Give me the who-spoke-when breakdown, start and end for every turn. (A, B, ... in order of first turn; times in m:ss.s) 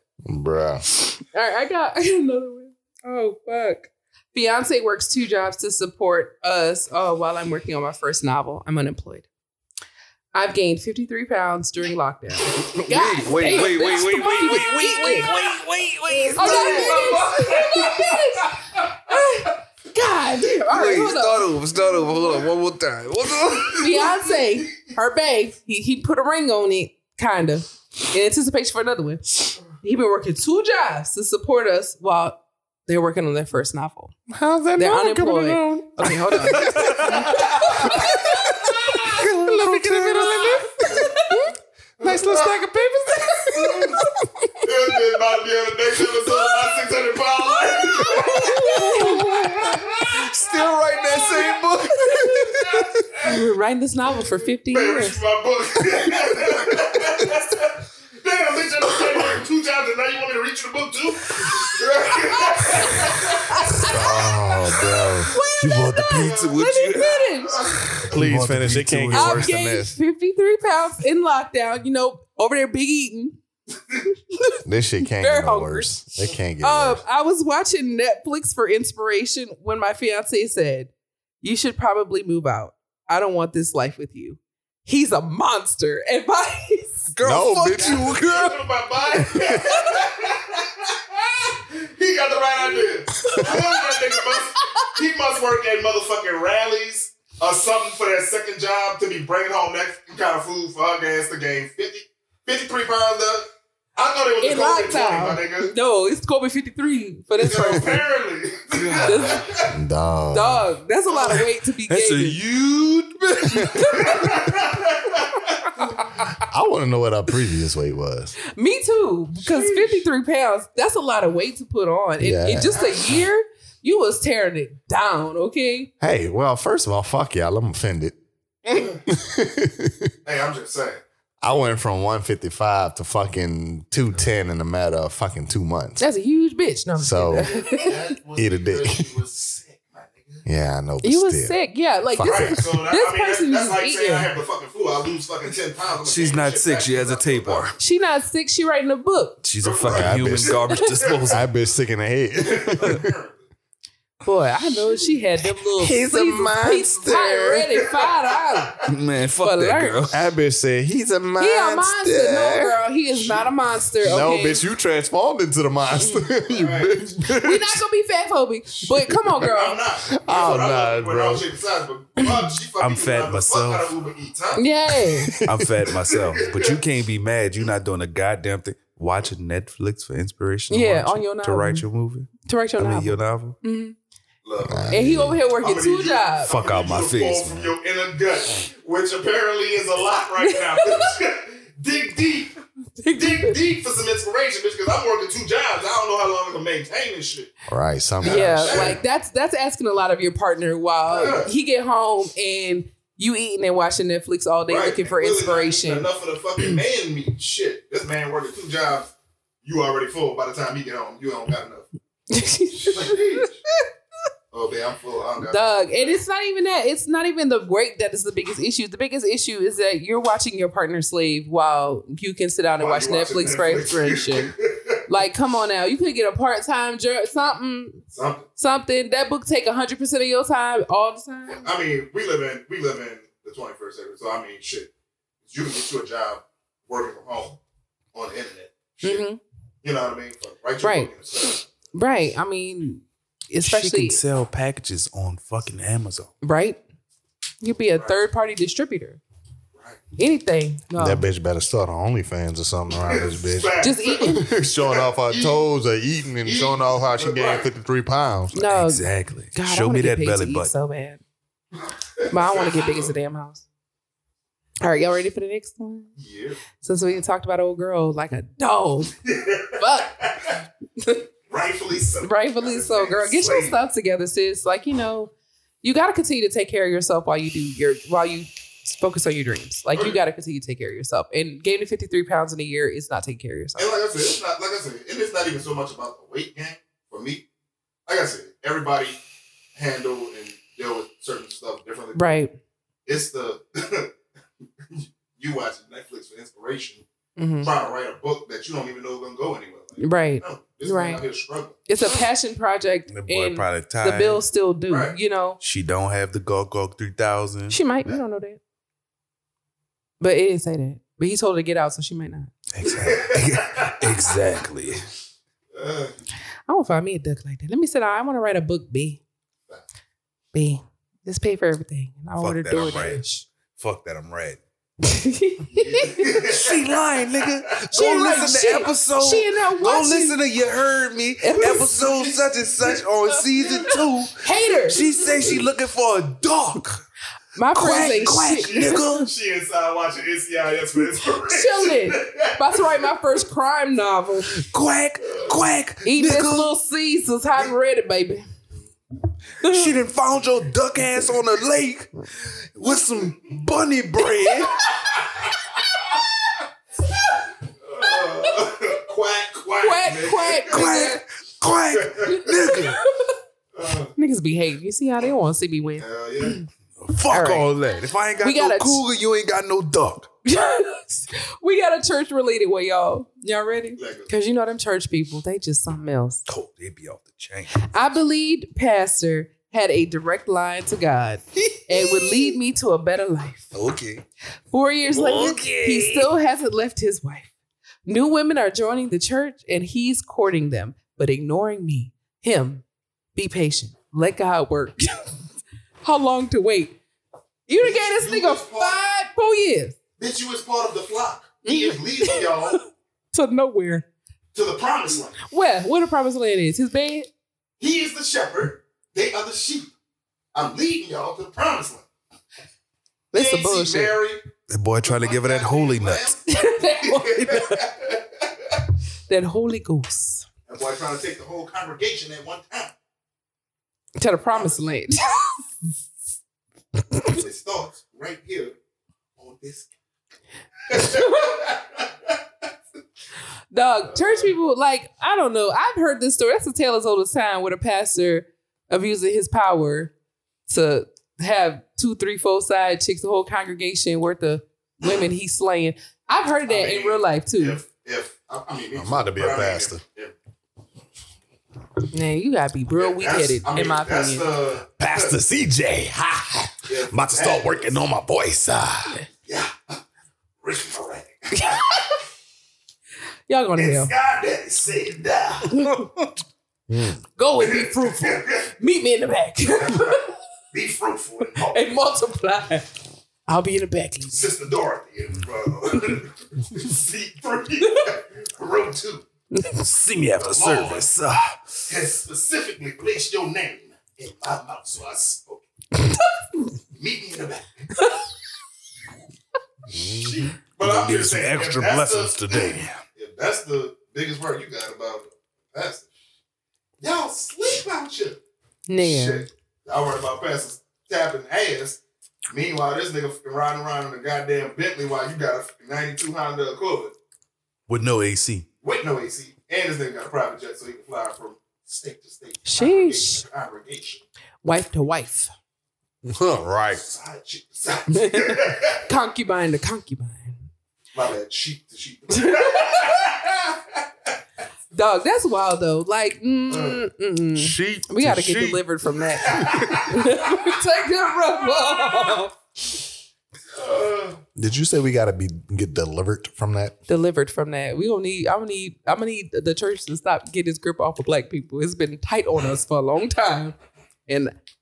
0:00.2-0:00.8 A
0:01.2-0:09.3 B
0:10.3-0:15.3 B
0:12.5-0:17.2 C
0:16.1-0:18.8 D
0:16.4-0:21.5 B
0:20.7-0:24.1 C
0:23.7-0:34.1 B
0:34.3-0:44.5 A
0:34.8-0:39.1 B
0:36.7-0:37.2 C
0:36.7-0:37.9 D
0:39.5-0:40.5 C
0:40.8-0:41.4 B
0:42.0-0:42.6 D
0:43.5-0:44.0 D
0:44.6-0:50.2 D
0:48.0-0:49.6 B
0:48.6-0:49.6 A
0:50.1-0:52.6 C
0:51.1-0:52.5 B
0:52.6-0:53.3 D
0:53.2-0:55.2 B
0:54.7-1:05.2 D
1:02.5-1:04.3 B
1:03.8-1:05.3 A
1:05.2-1:07.7 B
1:05.6-1:09.5 C
1:06.1-1:06.5 D
1:07.5-1:08.0 D
1:08.0-1:10.0 A
1:09.1-1:13.4 B
1:14.3-1:15.9 B
1:14.6-1:17.0 A
1:16.6-1:27.1 B
1:27.1-1:28.5 C
1:27.2-1:28.5 A
1:27.7-1:45.7 D
1:29.1-1:29.8 A
1:32.6-1:34.9 B
1:44.4-1:48.0 B
1:47.4-1:49.7 D
1:48.7-1:49.4 C
1:49.0-1:49.5 B
1:49.7-1:50.7 A
1:50.3-1:52.4 B
1:51.9-1:54.3 C
1:53.7-1:54.3 B
1:53.9-1:55.7 D
1:56.4-1:58.3 A
1:58.5-2:05.9 B
1:59.4-2:00.0 D
2:02.2-2:02.8 A
2:02.7-2:03.1 D
2:06.0-2:08.2 A
2:08.7-2:09.0 D
2:08.8-2:10.1 A
2:10.2-2:11.0 D
2:11.4-2:16.0 A
2:16.0-2:18.0 B
2:17.0-2:17.8 A
2:17.4-2:20.4 D
2:18.4-2:19.1 A
2:20.4-2:21.5 A
2:21.0-2:24.3 B
2:22.1-2:22.7 A
2:22.2-2:27.7 D
2:26.0-2:27.8 C
2:27.8-2:29.4 B
2:29.4-2:31.4 C
2:29.6-2:31.4 D
2:29.8-2:30.6 A
2:31.3-2:33.1 A
2:32.4-2:33.4 D
2:34.2-2:38.8 B
2:35.5-2:37.8 A
2:37.9-2:38.9 D
2:38.8-2:40.2 C
2:39.4-2:40.1 B
2:40.1-2:42.8 A
2:41.4-2:44.6 B
2:43.1-2:43.5 D
2:44.0-2:47.8 A
2:46.0-2:46.2 B
2:46.5-2:47.0 D
2:47.3-2:49.8 B
2:48.9-2:49.3 A
2:49.4-2:54.6 D
2:50.1-2:51.4 A
2:52.8-2:53.9 C
2:54.5-2:55.4 B
2:55.0-2:55.7 A
2:55.4-3:03.6 C
2:56.1-2:56.8 D
3:00.7-3:01.8 B
3:02.4-3:04.0 B
3:04.4-3:12.6 D
3:04.6-3:05.4 A
3:04.9-3:06.5 B
3:06.5-3:07.7 C
3:10.4-3:10.9 B
3:13.0-3:13.6 B
3:13.1-3:17.5 D
3:17.7-3:19.0 A
3:18.2-3:19.0 D
3:18.2-3:26.1 B
3:21.1-3:21.5 D
3:24.7-3:29.1 D
3:29.6-3:31.9 D
3:32.3-3:33.4 B
3:32.7-3:33.6 D
3:34.5-3:36.2 D
3:35.5-3:44.5 B
3:42.8-3:45.0 D
3:45.0-3:48.0 B
3:48.1-3:48.4 D
3:48.6-3:51.7 B
3:51.6-3:54.9 D
3:55.4-3:57.6 D
3:58.1-3:59.2 D
3:59.0-3:59.4 B
3:59.8-4:01.7 D
4:00.8-4:01.1 B
4:01.9-4:04.2 B
4:03.6-4:06.3 C
4:06.4-4:06.8 B
4:07.6-4:09.2 B
4:09.7-4:10.0 D
4:10.2-4:11.2 B
4:11.0-4:18.6 A
4:13.0-4:15.6 D
4:13.8-4:14.5 B
4:16.4-4:17.7 D
4:18.5-4:21.2 B
4:18.6-4:20.7 C
4:22.2-4:23.1 D
4:22.3-4:23.6 B
4:24.8-4:26.1 B
4:26.2-4:26.6 D
4:26.8-4:29.2 B
4:29.2-4:30.6 D
4:29.8-4:30.2 B
4:31.0-4:31.2 B
4:31.5-4:33.8 D
4:32.2-4:44.0 B
4:43.8-4:47.4 D
4:48.1-4:49.2 D
4:49.7-4:52.3 D
4:52.1-4:52.5 B
4:53.0-4:54.1 D
4:54.9-4:57.0 D
4:57.4-4:57.7 B
4:57.6-5:01.8 D
5:00.0-5:01.2 B
5:01.9-5:05.6 B
5:03.1-5:04.4 C
5:04.9-5:05.1 D
5:05.6-5:07.8 C
5:07.7-5:08.6 B
5:10.2-5:12.5 B
5:12.7-5:15.0 C
5:12.8-5:14.0 D
5:15.7-5:16.1 D
5:16.7-5:19.2 B
5:20.5-5:23.5 B
5:22.4-5:23.2 C
5:23.8-5:24.6 C
5:25.0-5:26.3 B
5:25.7-5:26.8 D
5:26.4-5:37.0 C
5:27.9-5:30.4 B
5:31.4-5:32.1 B
5:31.6-5:33.0 D
5:33.6-5:34.0 D
5:33.8-5:35.0 B
5:34.7-5:35.6 D
5:37.5-5:39.0 B
5:37.7-5:39.3 C
5:38.5-5:43.1 D
5:41.4-5:44.6 B
5:44.5-5:46.7 C
5:45.3-5:45.5 D
5:46.0-5:48.4 B
5:49.6-5:49.9 B
5:49.6-5:54.9 C
5:55.1-5:55.3 D
5:57.8-6:01.1 D
5:58.0-5:58.5 B
5:59.8-6:01.2 B
6:00.7-6:03.0 C
6:01.9-6:02.5 D
6:02.2-6:03.3 B
6:03.7-6:04.1 D
6:04.2-6:06.7 B
6:06.0-6:06.6 D
6:07.0-6:10.3 C
6:07.3-6:07.7 B
6:08.4-6:09.0 B
6:10.4-6:16.4 B
6:14.0-6:14.3 D
6:16.5-6:17.9 C
6:17.8-6:23.7 B
6:21.7-6:22.5 C
6:23.7-6:24.2 C
6:24.7-6:27.5 B
6:25.1-6:26.3 C
6:28.0-6:32.8 B
6:33.3-6:35.3 B
6:36.0-6:37.0 B
6:37.7-6:40.0 B
6:37.8-6:39.0 D
6:40.2-6:42.8 D
6:41.6-6:42.8 B
6:43.3-6:44.0 B
6:44.5-6:45.4 D
6:45.4-6:47.3 B
6:47.8-6:49.9 D
6:50.5-6:52.0 D
6:53.3-6:54.2 B
6:53.3-6:54.4 D
6:54.7-6:56.4 C
6:55.0-6:58.8 D
6:56.5-6:57.8 B
6:59.3-7:00.4 B
7:00.7-7:02.9 D
7:04.2-7:05.6 B
7:04.5-7:04.8 D
7:07.2-7:08.8 D
7:09.4-7:09.9 D
7:10.9-7:12.4 D
7:10.9-7:11.5 B
7:13.7-7:20.1 B
7:14.1-7:14.5 D
7:20.7-7:27.8 B
7:26.7-7:30.3 D
7:28.9-7:30.0 A
7:32.1-7:34.5 B
7:32.9-7:35.4 D
7:35.0-7:39.2 A
7:36.9-7:38.0 D
7:39.4-7:40.0 D
7:40.6-7:42.0 D
7:41.5-7:42.1 B
7:43.5-7:44.1 B
7:43.8-7:45.9 D
7:45.8-7:46.0 B
7:46.9-7:47.2 A
7:47.4-7:50.3 B
7:47.6-7:48.7 D
7:49.8-7:51.9 D
7:51.6-7:52.9 B
7:53.5-7:54.4 B
7:54.3-7:59.2 D
7:59.5-7:59.8 B
7:59.7-8:01.6 C
8:00.4-8:01.1 D
8:01.9-8:05.6 D
8:06.9-8:08.1 D
8:09.9-8:10.4 A
8:10.0-8:16.1 D
8:10.8-8:13.0 C
8:17.0-8:18.4 D
8:18.9-8:19.4 B
8:19.0-8:27.1 D
8:27.9-8:28.7 C
8:28.8-8:34.2 D
8:32.6-8:33.4 B
8:34.6-8:35.5 B
8:36.2-8:37.0 A
8:36.9-8:39.1 D
8:38.1-8:40.6 B
8:41.1-8:44.0 D
8:42.3-8:43.2 B
8:44.9-8:52.5 B
8:46.7-8:47.0 D
8:47.6-8:48.8 C
8:49.4-8:50.8 D
8:49.5-8:50.0 A
8:53.7-8:54.4 D
8:54.6-8:56.9 A
8:57.1-9:03.7 B
9:04.3-9:04.5 B